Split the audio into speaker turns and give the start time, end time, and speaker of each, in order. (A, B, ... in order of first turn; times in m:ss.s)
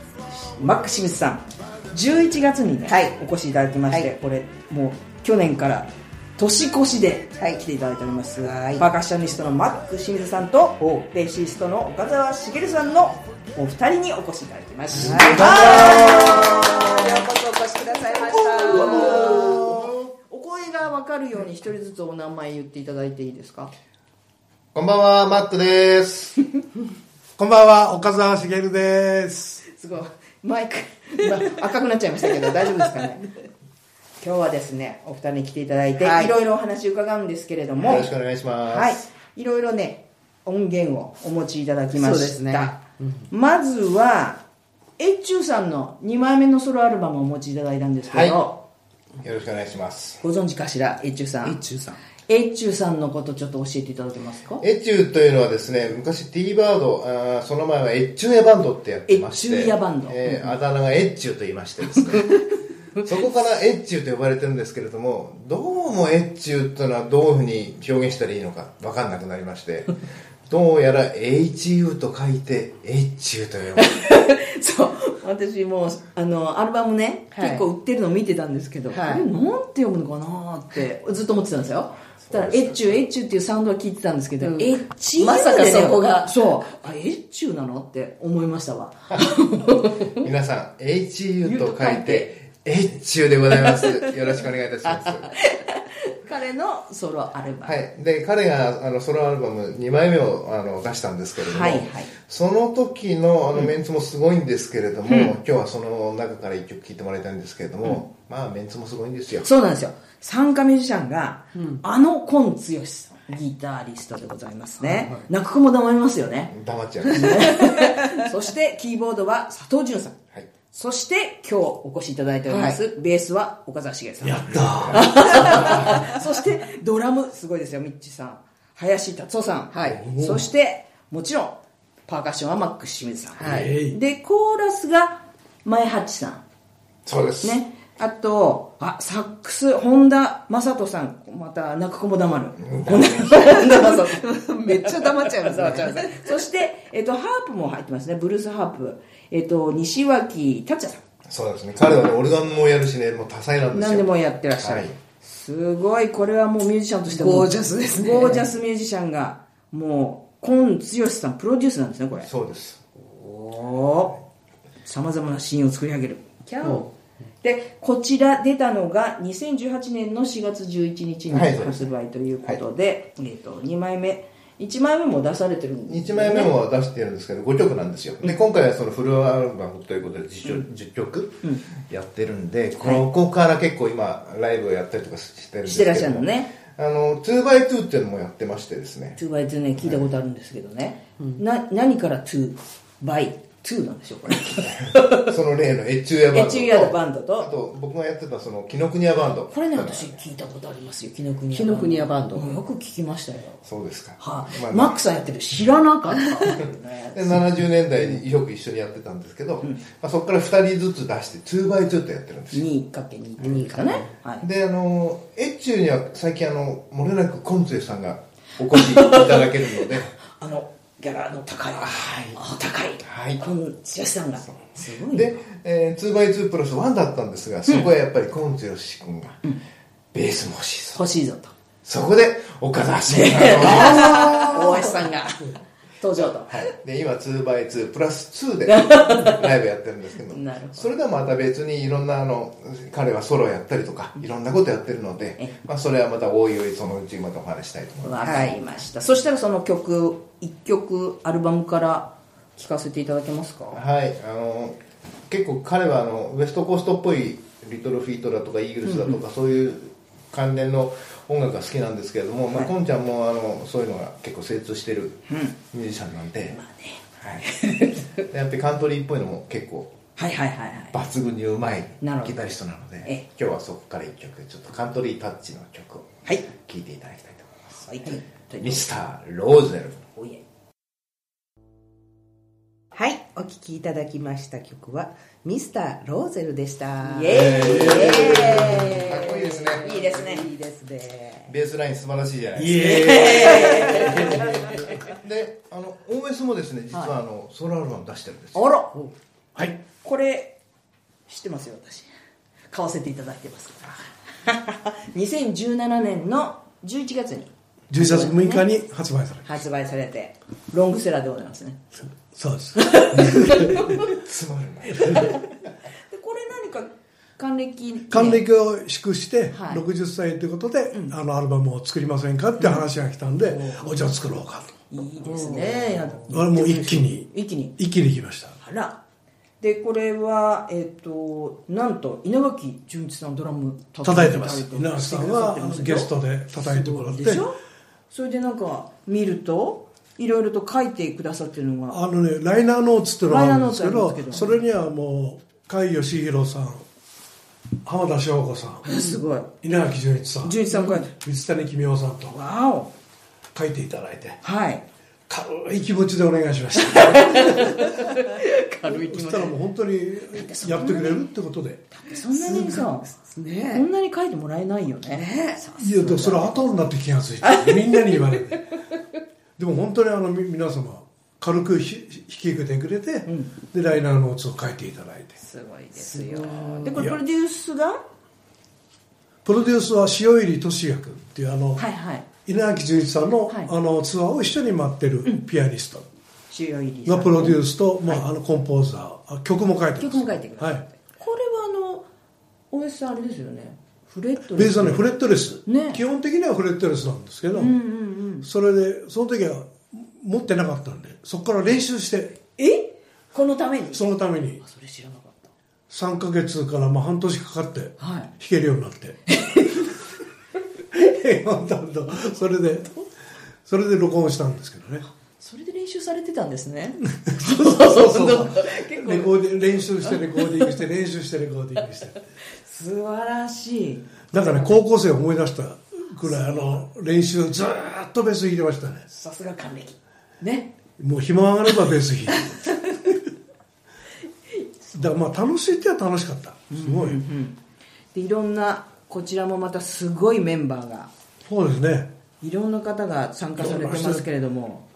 0:00.4-0:17.2 A
0:02.8-0:03.2 B
0:07.4-0:07.6 B
0:08.4-0:08.9 B
0:14.9-0:19.6 B
0:14.9-0:16.5 C
0:18.0-0:23.7 A
0:18.4-0:19.8 C
0:19.7-0:20.0 D
0:24.7-0:26.4 D
0:27.4-0:29.6 C
0:29.7-0:33.4 A
0:34.2-0:38.1 A
0:36.0-0:36.3 B
0:37.8-0:39.0 D
0:38.6-0:42.8 A
0:41.9-0:43.2 B
0:43.3-0:44.4 A
0:45.0-0:48.6 A
0:48.0-0:48.4 D
0:49.2-0:50.2 D
0:50.2-0:51.6 A
0:51.4-0:52.0 B
0:52.3-0:54.6 A
0:54.6-1:02.4 D
0:59.1-1:00.2 A
1:00.2-1:00.5 B
1:01.9-1:02.4 A
1:03.0-1:10.0 D
1:10.5-1:13.9 D
1:13.8-1:30.2 A
1:17.3-1:17.6 B
1:18.9-1:19.2 B
1:22.2-1:23.0 D
1:24.4-1:26.4 B
1:30.1-1:35.3 D
1:31.4-1:32.3 A
1:33.5-1:34.2 A
1:34.8-1:37.8 A
1:37.6-1:49.5 D
1:41.4-1:42.1 A
1:45.1-1:45.3 A
1:49.4-1:56.5 A
1:54.8-1:55.2 B
1:56.5-1:57.6 D
1:57.1-2:00.2 A
2:00.7-2:16.4 A
2:02.5-2:02.8 B
2:04.2-2:05.2 C
2:04.5-2:06.0 D
2:09.7-2:10.0 B
2:09.9-2:10.4 C
2:13.4-2:13.7 B
2:13.4-2:14.0 C
2:17.0-2:17.6 D
2:17.4-2:31.0 A
2:22.6-2:23.5 D
2:23.6-2:26.3 B
2:31.3-2:34.9 D
2:33.7-2:42.3 A
2:37.1-2:38.5 B
2:42.2-2:42.8 D
2:43.0-2:44.2 A
2:44.8-2:46.9 A
2:46.6-2:46.9 B
2:47.4-2:56.6 A
2:51.3-2:51.9 D
2:55.9-3:09.2 D
3:02.8-3:03.0 A
3:05.6-3:06.5 A
3:09.2-3:15.3 A
3:14.8-3:20.2 D
3:16.3-3:17.5 A
3:19.5-3:23.6 A
3:21.5-3:22.6 B
3:23.6-3:25.0 D
3:24.2-3:27.4 A
3:27.1-3:32.7 D
3:32.5-3:34.4 A
3:33.4-3:34.0 B
3:34.4-3:40.1 D
3:38.7-3:45.4 A
3:41.7-3:42.4 D
3:43.0-3:43.5 D
3:45.1-3:49.4 D
3:50.1-3:51.0 D
3:50.9-3:51.5 A
3:51.8-3:55.1 D
3:53.1-3:56.7 A
3:56.2-4:08.5 D
3:58.7-3:59.5 A
4:00.3-4:00.9 A
4:08.0-4:13.8 A
4:08.2-4:08.6 B
4:13.7-4:26.6 D
4:18.8-4:19.2 A
4:25.3-4:25.6 A
4:26.5-4:28.2 A
4:27.2-4:27.4 D
4:28.3-4:29.9 D
4:30.2-4:31.0 A
4:30.9-4:37.7 D
4:32.0-4:32.4 A
4:37.8-4:38.9 A
4:38.6-4:40.0 D
4:40.1-4:40.4 A
4:42.9-4:51.5 B
4:47.0-4:50.4 A
4:47.4-4:49.9 D
4:47.4-4:48.0 C
4:51.5-4:53.4 D
4:52.6-4:55.0 C
4:52.8-4:54.9 A
4:53.5-4:54.1 B
4:55.1-4:58.6 D
4:58.5-4:59.0 A
4:59.6-5:00.6 A
5:01.3-5:02.1 A
5:02.7-5:08.7 A
5:07.9-5:09.5 C
5:09.4-5:11.8 A
5:12.0-5:14.1 C
5:12.8-5:14.1 A
5:14.0-5:15.3 D
5:14.9-5:15.3 C
5:15.0-5:15.4 A
5:16.1-5:18.4 A
5:18.1-5:24.8 C
5:19.5-5:19.8 A
5:22.6-5:22.8 A
5:23.4-5:24.1 A
5:24.9-5:27.7 A
5:25.4-5:25.7 B
5:26.3-5:28.6 C
5:28.6-5:29.0 A
5:29.6-5:37.6 A
5:34.0-5:37.5 C
5:38.1-5:42.0 A
5:41.9-5:46.8 C
5:43.3-5:44.6 A
5:47.8-5:48.9 C
5:48.8-5:49.5 A
5:49.6-5:52.4 C
5:50.4-5:51.1 A
5:52.3-5:52.9 A
5:53.5-5:54.4 C
5:54.4-5:54.8 A
5:55.3-5:58.2 C
5:56.7-5:59.6 A
5:58.8-6:01.8 C
6:00.3-6:01.3 A
6:01.9-6:03.1 A
6:02.3-6:03.8 B
6:03.7-6:06.8 A
6:05.1-6:05.6 B
6:05.8-6:08.6 C
6:07.4-6:08.2 A
6:09.6-6:15.3 C
6:13.2-6:13.5 A
6:15.4-6:18.0 A
6:15.9-6:16.9 B
6:19.4-6:21.8 C
6:21.8-6:22.3 A
6:22.4-6:26.0 C
6:26.5-6:28.2 A
6:27.0-6:30.8 C
6:30.0-6:32.1 A
6:32.7-6:35.1 A
6:34.5-6:37.8 C
6:35.6-6:36.0 A
6:37.5-6:38.5 A
6:38.4-6:42.4 C
6:42.6-6:44.0 A
6:43.9-6:44.6 C
6:44.6-6:45.5 A
6:45.9-6:49.2 C
6:48.0-6:48.3 A
6:49.3-6:49.9 A
6:50.9-6:52.9 C
6:53.6-6:55.0 C
6:55.4-7:00.7 A
6:57.2-7:02.2 C
7:02.6-7:04.7 A
7:04.3-7:09.0 C
7:06.3-7:06.7 A
7:09.1-7:10.7 A
7:11.0-7:13.1 C
7:12.4-7:13.1 A
7:14.9-7:17.2 C
7:16.7-7:17.6 A
7:18.1-7:21.1 A
7:21.4-7:22.1 C
7:22.4-7:24.8 A
7:23.6-7:24.2 C